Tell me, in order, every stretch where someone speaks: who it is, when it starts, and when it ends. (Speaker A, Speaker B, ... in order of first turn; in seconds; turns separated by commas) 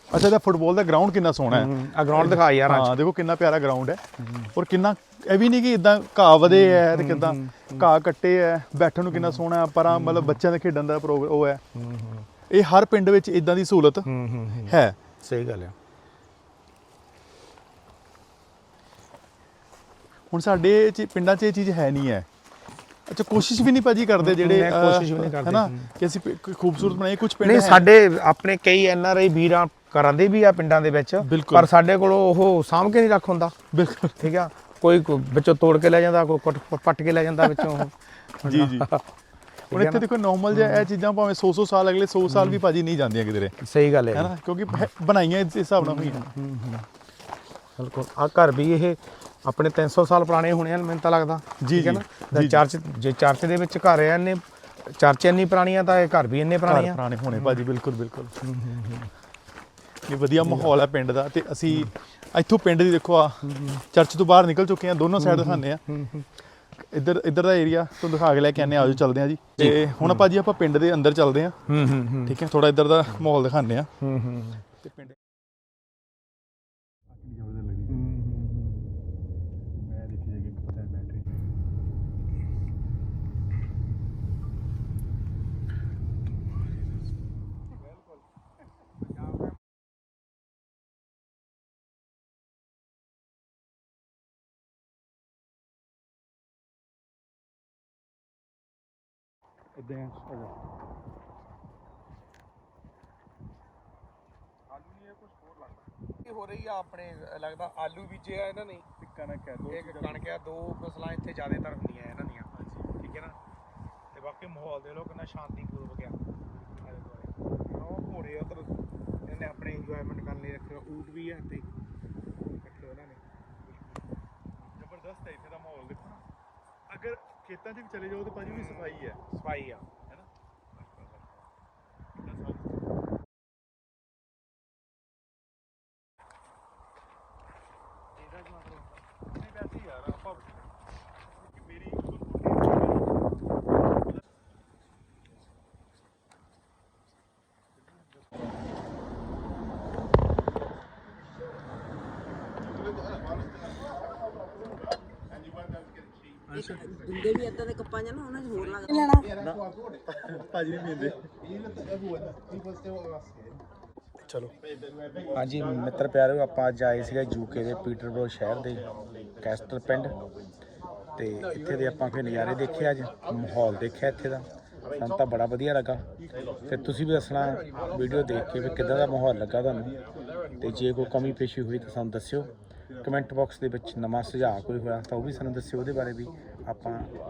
Speaker A: 0.1-11.6, Speaker B: 1.5-2.9, Speaker B: 6.5-7.9, Speaker B: 9.1-10.4, Speaker B: 11.7-12.3, Speaker A: 12.5-14.1, Speaker B: 14.1-15.7, Speaker A: 14.7-15.0, Speaker A: 20.3-22.3, Speaker A: 23.1-27.9, Speaker B: 24.2-25.9, Speaker B: 27.4-33.5, Speaker A: 31.2-31.7, Speaker A: 33.7-34.3, Speaker B: 34.2-39.0, Speaker A: 38.4-38.9, Speaker B: 39.7-40.9, Speaker A: 39.7-43.5, Speaker B: 42.3-42.6, Speaker B: 43.6-44.9, Speaker A: 44.1-46.3, Speaker B: 45.8-46.8, Speaker B: 47.8-57.6, Speaker A: 51.6-52.6, Speaker A: 56.7-58.4, Speaker B: 58.4-59.1, Speaker A: 60.1-65.8, Speaker B: 60.4-60.7, Speaker B: 63.4-63.8, Speaker B: 65.2-66.3, Speaker A: 66.8-71.6, Speaker B: 68.6-69.0, Speaker B: 69.6-70.3, Speaker B: 71.7-72.4, Speaker A: 72.2-73.9, Speaker B: 74.0-74.7, Speaker A: 77.2-78.1, Speaker B: 78.0-78.6, Speaker A: 79.8-81.2, Speaker A: 99.8-100.5, Speaker A: 104.8-105.7, Speaker B: 106.1-108.9, Speaker A: 109.0-110.3, Speaker B: 109.7-113.4, Speaker A: 112.5-112.9, Speaker B: 114.1-116.2, Speaker B: 116.8-121.7, Speaker B: 122.4-123.2, Speaker A: 124.8-126.2, Speaker A: 126.9-129.2, Speaker B: 128.4-129.8, Speaker A: 132.2-132.6, Speaker B: 138.5-138.8, Speaker A: 139.3-140.5, Speaker A: 141.6-143.0, Speaker A: 156.5-156.9, Speaker C: 156.6-159.2, Speaker A: 159.3-159.6, Speaker A: 160.1-161.2, Speaker B: 165.3-168.8, Speaker B: 169.4-170.1, Speaker B: 171.2-176.0, Speaker B: 176.7-180.0, Speaker B: 180.6-187.1